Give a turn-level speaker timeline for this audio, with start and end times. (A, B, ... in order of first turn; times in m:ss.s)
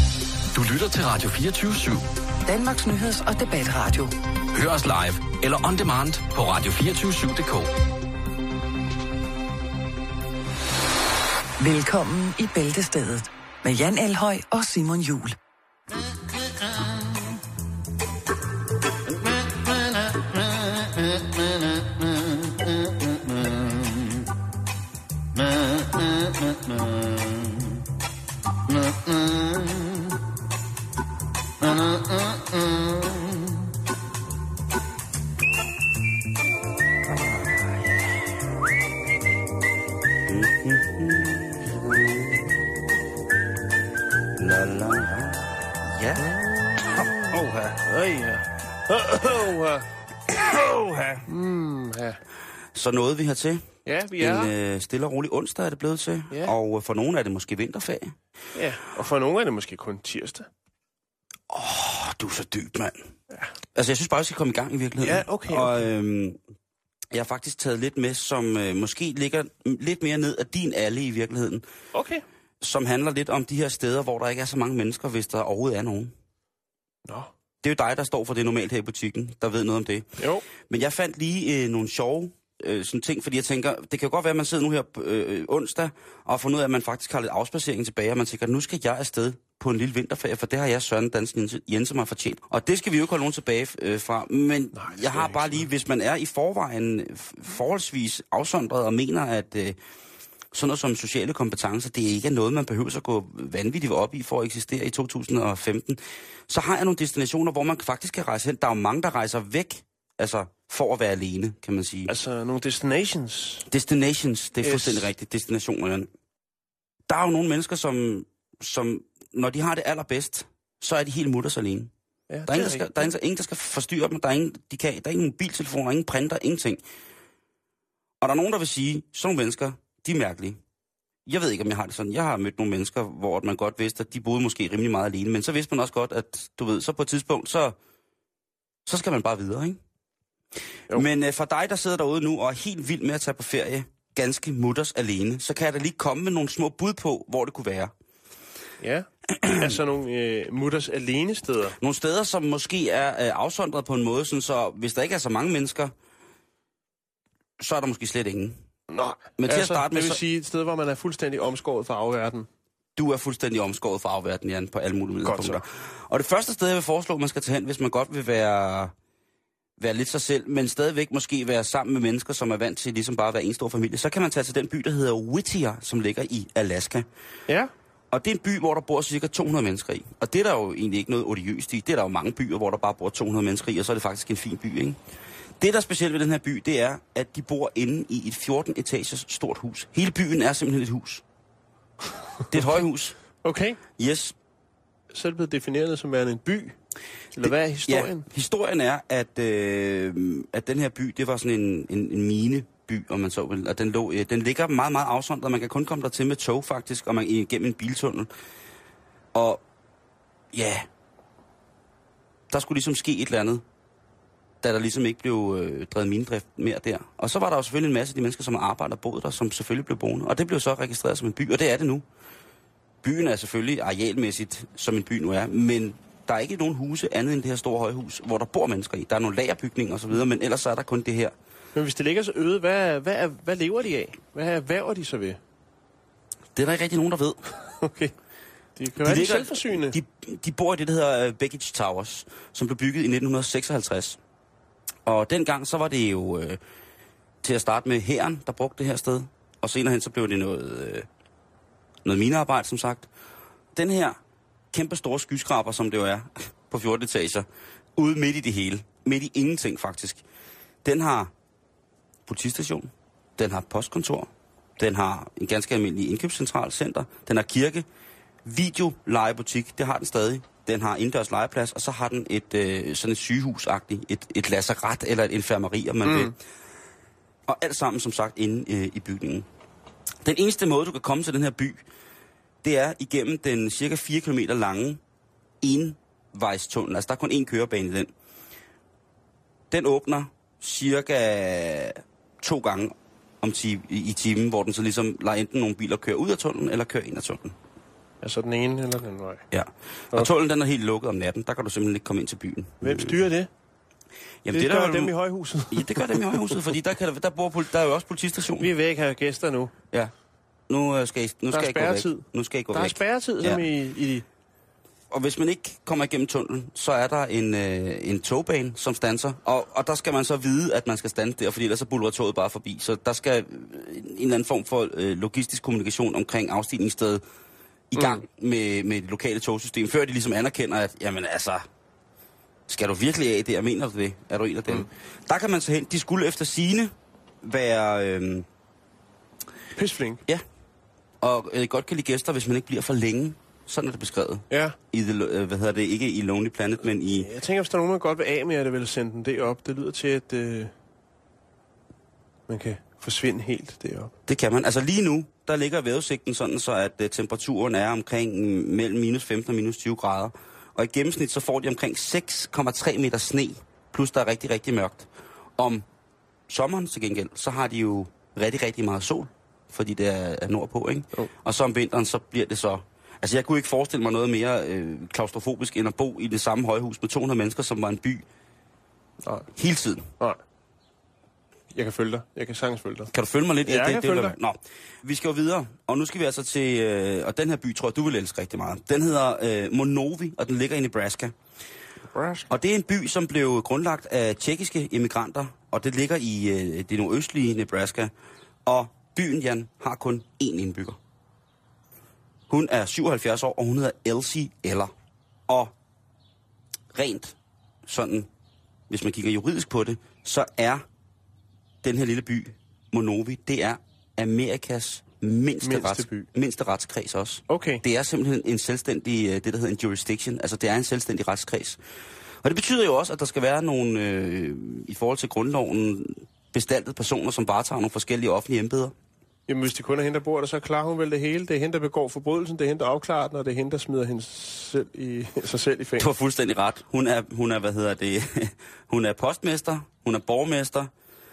0:00.5-0:02.1 A
0:02.5-0:04.1 B
0:04.5-0:07.7 A
0:11.6-0:15.4 B
0:37.2-0:37.7 C
0:40.3-0:42.4 C
0:44.3-0:46.3 C
0:47.3-0:47.8 C
0:47.3-0:49.9 D
0:50.5-0:51.2 C
0:51.2-0:52.2 D
0:52.8-0:58.2 C
0:53.9-0:54.5 D
0:58.5-1:00.5 D
1:01.5-1:03.1 C
1:03.7-1:06.4 C
1:05.0-1:05.8 D
1:07.1-1:11.6 C
1:11.9-1:12.2 D
1:12.6-1:16.1 C
1:17.0-1:17.3 D
1:17.6-1:39.8 C
1:20.2-1:20.4 D
1:34.7-1:35.6 D
1:40.5-1:52.1 C
1:52.1-1:53.7 D
1:53.7-1:56.1 C
1:54.6-1:55.1 D
1:57.1-2:01.9 C
2:02.3-2:03.1 D
2:02.5-2:06.8 C
2:08.2-2:10.6 C
2:11.2-2:17.8 C
2:18.8-2:19.8 C
2:20.9-2:27.9 C
2:28.8-2:31.8 D
2:31.8-2:35.9 C
2:37.6-2:38.6 C
2:38.9-2:42.5 D
2:39.4-2:40.2 C
2:43.0-2:48.9 C
2:45.2-2:45.6 D
2:49.8-2:57.1 C
2:58.1-3:05.0 C
3:05.6-3:11.2 C
3:12.5-3:13.2 C
3:13.4-3:13.8 D
3:14.0-3:14.3 C
3:15.1-3:16.8 D
3:17.3-3:18.3 D
3:17.9-3:28.3 C
3:29.3-3:29.6 C
3:30.5-3:30.9 C
3:32.5-3:33.6 C
3:34.6-3:42.0 C
3:43.0-3:51.3 C
3:51.7-3:55.4 D
3:56.5-3:57.5 C
3:57.8-3:58.1 D
3:58.8-4:00.0 D
3:59.0-4:04.2 C
4:05.1-4:06.6 C
4:07.4-4:11.1 C
4:12.0-4:13.1 C
4:13.7-4:14.2 C
4:14.7-4:17.5 C
4:18.0-4:20.2 C
4:20.8-4:21.3 C
4:22.3-4:27.9 C
4:28.4-4:36.4 C
4:36.0-4:36.3 D
4:37.5-4:39.5 C
4:40.2-4:41.9 C
4:42.6-4:45.0 C
4:45.6-4:48.1 C
4:49.7-4:57.6 C
4:58.2-4:59.4 D
4:59.5-5:03.2 C
5:02.8-5:03.5 D
5:04.4-5:05.2 C
5:04.5-5:06.6 D
5:05.7-5:08.7 C
5:08.6-5:09.7 D
5:10.7-5:13.6 C
5:11.5-5:14.2 D
5:15.1-5:27.2 C
5:27.9-5:31.6 C
5:28.0-5:28.2 D
5:32.7-5:38.5 C
5:39.8-5:40.2 D
5:41.2-5:47.3 C
5:44.5-5:44.8 D
5:47.2-5:50.7 D
5:52.5-5:54.1 D
5:54.3-6:05.8 C
6:06.5-6:18.2 C
6:19.2-6:19.5 D
6:19.6-6:20.1 C
6:21.7-6:23.1 D
6:23.1-6:31.3 C
6:23.7-6:24.4 D
6:32.0-6:32.5 D
6:32.5-6:38.1 C
6:38.7-6:41.0 C
6:42.5-6:44.9 C
6:45.5-6:45.7 C
6:46.9-6:47.4 C
6:47.9-6:48.3 C
6:48.9-6:50.8 C
6:51.8-7:01.8 C
6:55.6-6:56.3 D
6:57.5-6:57.8 D
7:02.4-7:08.9 C
7:09.5-7:16.1 D
7:16.0-7:20.9 C